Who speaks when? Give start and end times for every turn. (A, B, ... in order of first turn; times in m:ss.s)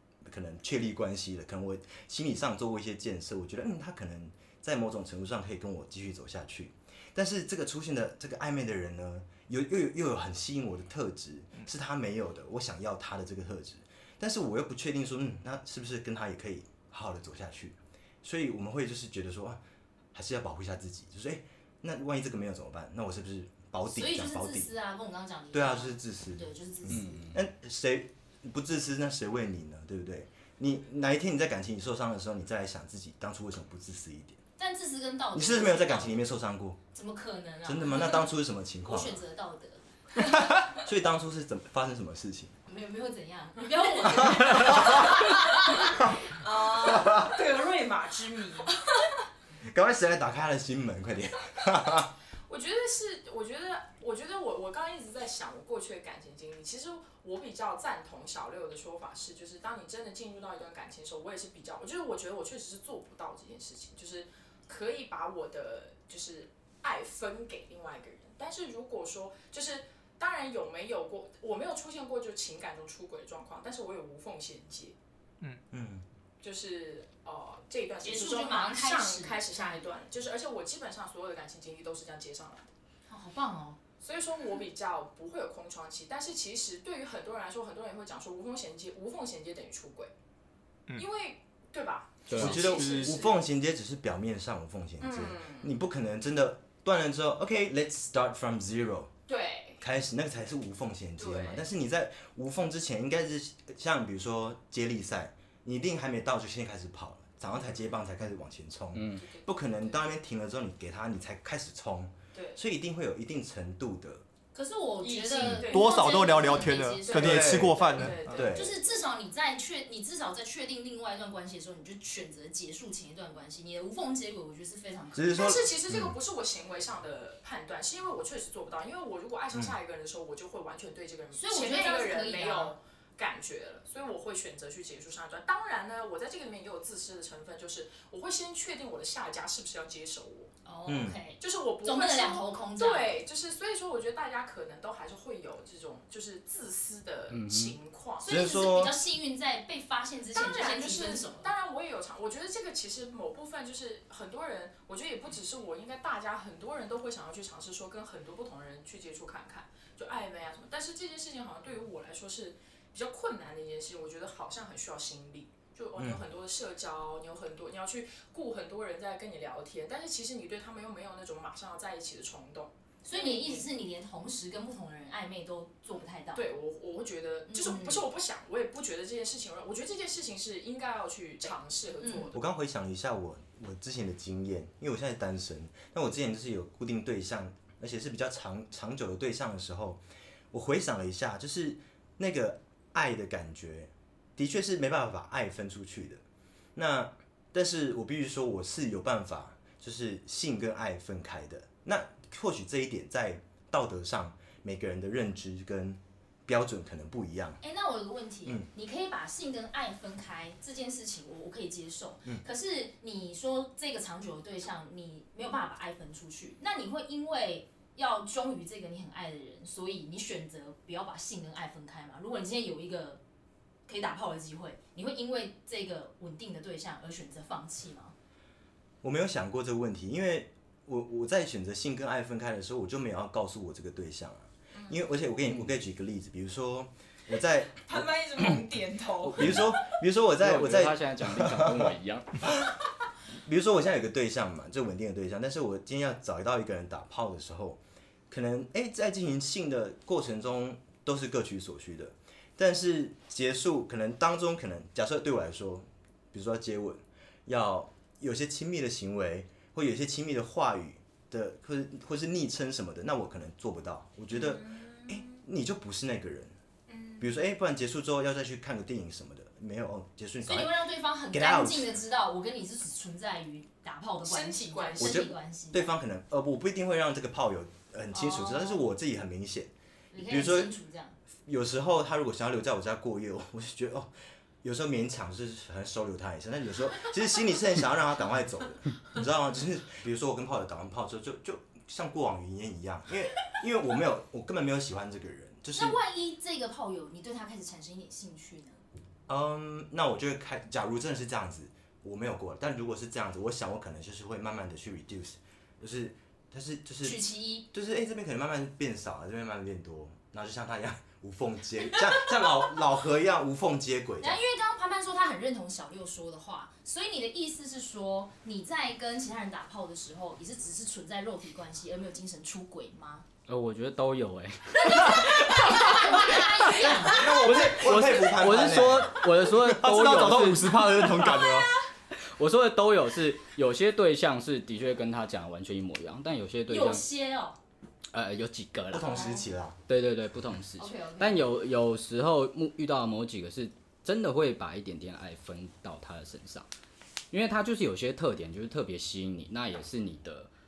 0:00.2-0:19.6 A
0:20.1-0:24.7 A
0:23.9-0:27.3 B
0:25.5-0:34.4 A
0:26.9-0:27.4 C
0:34.6-0:36.2 B
0:35.4-0:36.8 A
0:36.9-0:38.2 B
0:37.6-0:39.2 A
0:38.8-0:39.8 B
0:40.6-0:42.5 A
0:42.7-0:45.7 B
0:44.0-0:45.1 D
0:44.4-0:44.7 A
0:46.3-0:48.8 D
0:47.0-0:47.2 A
0:49.6-0:52.1 A
0:52.5-1:14.9 D
1:15.7-1:16.0 A
1:16.4-1:22.7 D
1:18.0-1:19.8 B
1:23.1-1:23.8 B
1:24.0-1:30.1 D
1:31.0-1:33.4 D
1:32.3-1:32.8 C
1:32.4-1:39.1 A
1:32.6-1:33.2 E
1:35.0-1:35.7 D
1:39.3-1:39.8 D
1:39.8-1:54.2 A
1:41.2-1:41.6 D
1:48.9-1:49.2 C
1:49.2-1:50.0 D
1:52.3-1:52.6 D
1:54.5-1:57.4 B
1:55.0-1:58.9 D
1:55.4-1:58.4 E
1:57.1-1:58.7 A
1:58.4-2:05.6 B
2:05.1-2:06.1 A
2:05.3-2:20.5 D
2:11.4-2:12.8 B
2:20.6-2:23.1 B
2:20.9-2:21.2 A
2:21.4-2:28.3 D
2:27.3-2:27.7 C
2:28.2-2:31.5 B
2:28.2-2:29.0 A
2:30.3-2:53.6 D
2:46.0-2:46.2 A
2:53.0-2:56.4 B
2:56.4-3:02.4 D
2:57.5-2:58.1 B
3:02.0-3:02.4 B
3:02.3-3:10.0 A
3:10.5-3:16.2 A
3:16.8-3:27.6 A
3:27.6-3:43.2 B
3:43.9-3:48.1 B
3:49.0-3:58.0 A
3:54.7-3:55.0 D
3:57.8-3:59.7 D
3:59.2-3:59.7 C
3:59.4-4:01.9 A
4:00.4-4:02.4 C
4:02.5-4:02.7 A
4:03.4-4:26.5 A
4:24.3-4:25.4 D
4:26.9-4:27.4 D
4:27.2-4:30.7 A
4:30.4-4:35.9 B
4:31.3-4:32.0 A
4:34.2-4:35.3 D
4:35.0-4:40.7 A
4:38.1-4:38.9 B
4:40.1-4:41.2 B
4:41.4-4:44.1 A
4:44.6-4:56.0 A
4:55.7-4:58.8 B
4:59.3-5:07.2 A
5:07.0-5:07.7 B
5:07.7-5:14.4 A
5:14.2-5:23.2 B
5:23.5-5:30.9 C
5:24.7-5:27.3 B
5:26.7-5:29.2 A
5:29.5-5:31.7 E
5:31.2-5:31.6 B
5:32.1-5:37.0 C
5:36.7-5:37.6 B
5:38.1-5:39.3 C
5:38.9-5:39.8 A
5:39.0-5:39.4 B
5:39.9-5:46.7 C
5:40.8-5:41.5 B
5:47.3-5:50.5 C